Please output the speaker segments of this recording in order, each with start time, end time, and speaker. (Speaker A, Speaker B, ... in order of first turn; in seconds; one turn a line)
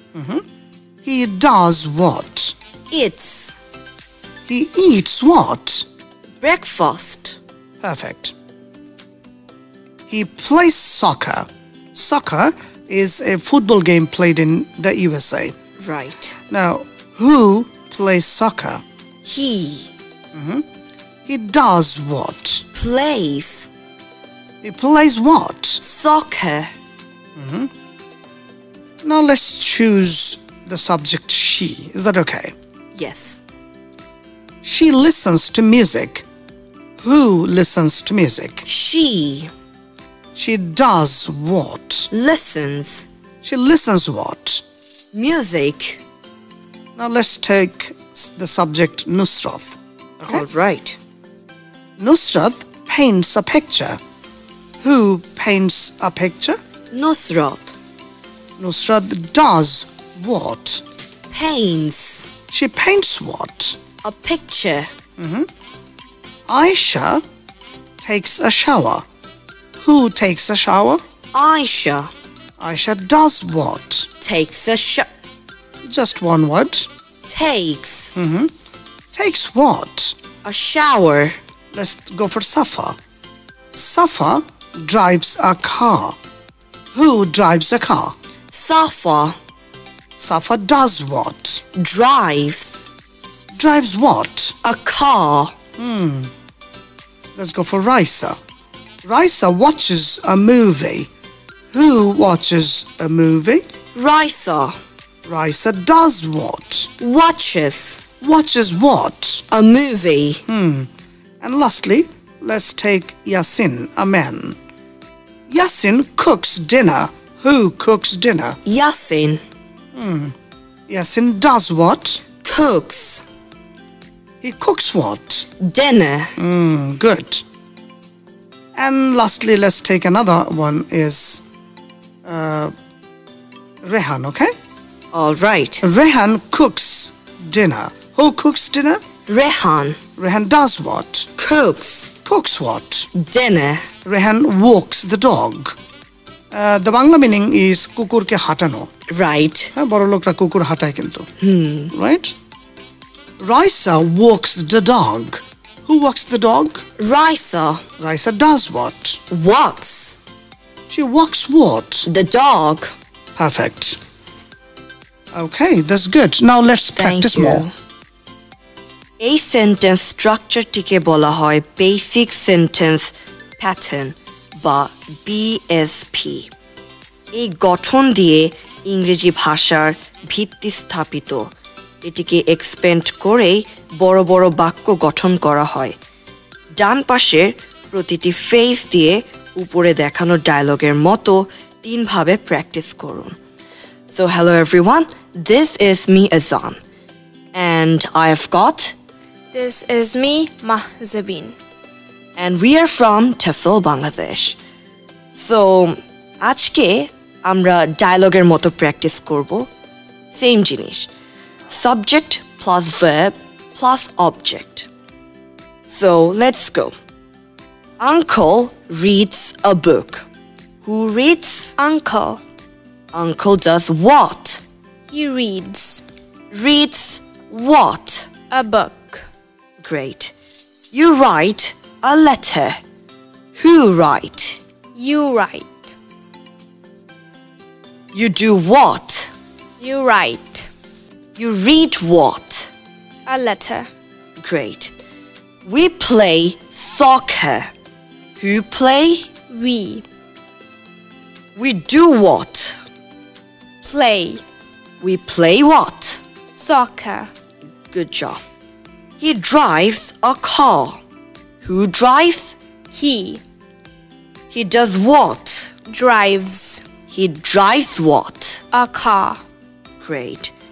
Speaker A: 0.1-0.4
Speaker A: 1.0-2.5
Speaker B: 2.9-3.6
Speaker A: 4.5-5.9
Speaker B: 6.4-7.4
Speaker A: 7.8-8.3
Speaker A: 10.1-15.5
Speaker B: 15.8-16.4
Speaker A: 16.5-18.8
Speaker B: 19.2-19.9
Speaker A: 20.3-20.6
Speaker A: 21.3-22.6
Speaker B: 22.7-23.7
Speaker A: 24.6-25.8
Speaker B: 25.8-26.7
Speaker A: 27.4-27.7
Speaker A: 29.0-32.5
Speaker B: 32.9-33.4
Speaker A: 34.6-36.2
Speaker A: 37.0-38.7
Speaker B: 38.7-39.5
Speaker A: 40.4-42.1
Speaker B: 42.1-43.1
Speaker A: 43.4-44.6
Speaker B: 45.1-46.0
Speaker A: 47.0-50.4
Speaker B: 50.2-51.0
Speaker A: 52.0-54.0
Speaker A: 54.8-56.6
Speaker B: 56.9-57.8
Speaker A: 58.6-60.8
Speaker B: 61.3-62.3
Speaker A: 62.5-63.8
Speaker B: 64.0-64.9
Speaker A: 65.2-65.5
Speaker A: 66.5-67.2
Speaker A: 68.0-69.0
Speaker A: 69.8-71.0
Speaker B: 71.3-72.1
Speaker A: 72.6-74.1
Speaker B: 74.2-75.1
Speaker A: 75.8-76.9
Speaker B: 77.3-78.1
Speaker A: 78.2-78.5
Speaker A: 79.1-80.2
Speaker B: 80.4-81.4
Speaker A: 81.7-83.0
Speaker A: 83.7-86.2
Speaker A: 86.9-88.2
Speaker B: 88.5-89.4
Speaker A: 90.2-91.6
Speaker B: 91.8-92.8
Speaker A: 93.5-94.5
Speaker B: 94.6-95.6
Speaker A: 95.8-96.3
Speaker A: 97.4-98.4
Speaker A: 99.0-101.1
Speaker A: 101.7-103.6
Speaker B: 104.0-104.8
Speaker A: 105.3-106.9
Speaker B: 107.0-108.0
Speaker A: 108.2-109.5
Speaker B: 109.5-110.4
Speaker A: 110.5-110.9
Speaker A: 111.4-114.6
Speaker A: 115.5-118.6
Speaker B: 118.7-119.4
Speaker A: 120.0-120.3
Speaker A: 120.9-122.2
Speaker B: 122.4-123.2
Speaker A: 124.4-125.5
Speaker B: 125.6-126.3
Speaker A: 126.4-127.4
Speaker A: 128.8-131.4
Speaker A: 132.2-132.7
Speaker A: 133.8-134.5
Speaker B: 135.1-135.8
Speaker A: 135.8-139.0
Speaker B: 139.3-140.0
Speaker A: 140.2-141.3
Speaker B: 141.4-142.1
Speaker A: 142.2-143.1
Speaker B: 143.1-143.9
Speaker A: 144.1-145.8
Speaker A: 146.5-148.9
Speaker B: 149.1-149.7
Speaker A: 149.7-151.3
Speaker B: 151.4-151.9
Speaker A: 151.9-152.3
Speaker A: 153.4-156.8
Speaker B: 157.0-157.8
Speaker A: 158.0-159.2
Speaker B: 159.3-160.2
Speaker A: 160.9-162.1
Speaker B: 162.1-162.9
Speaker A: 163.4-164.0
Speaker A: 165.3-167.7
Speaker B: 167.0-167.7
Speaker B: 169.2-176.5
Speaker B: 177.3-181.5
Speaker B: 182.0-186.0
Speaker B: 186.7-193.4
Speaker B: 194.1-196.8
Speaker B: 197.5-198.9
Speaker C: 199.5-201.6
Speaker B: 202.4-204.6
Speaker B: 205.3-209.7
Speaker B: 210.3-211.1
Speaker B: 211.7-214.9
Speaker B: 215.9-217.0
Speaker B: 218.0-220.3
Speaker B: 220.8-221.8
Speaker C: 221.8-222.4
Speaker B: 223.1-224.6
Speaker C: 225.1-226.0
Speaker B: 226.5-228.3
Speaker C: 228.5-229.3
Speaker B: 229.8-230.3
Speaker B: 230.9-232.8
Speaker B: 233.6-234.6
Speaker C: 234.9-235.9
Speaker B: 238.1-239.3
Speaker C: 239.8-240.7
Speaker B: 241.4-242.7
Speaker C: 243.3-243.9
Speaker B: 244.4-244.9
Speaker B: 245.7-247.7
Speaker B: 248.4-249.3
Speaker C: 249.5-250.1
Speaker B: 251.6-252.8
Speaker C: 253.8-254.4
Speaker B: 255.0-256.2
Speaker C: 256.6-257.3
Speaker B: 257.9-258.4
Speaker B: 259.2-261.0
Speaker B: 261.6-262.6
Speaker C: 262.9-263.4
Speaker B: 264.5-265.8
Speaker C: 265.9-266.8
Speaker B: 267.1-268.6
Speaker C: 268.7-269.4
Speaker B: 270.0-270.5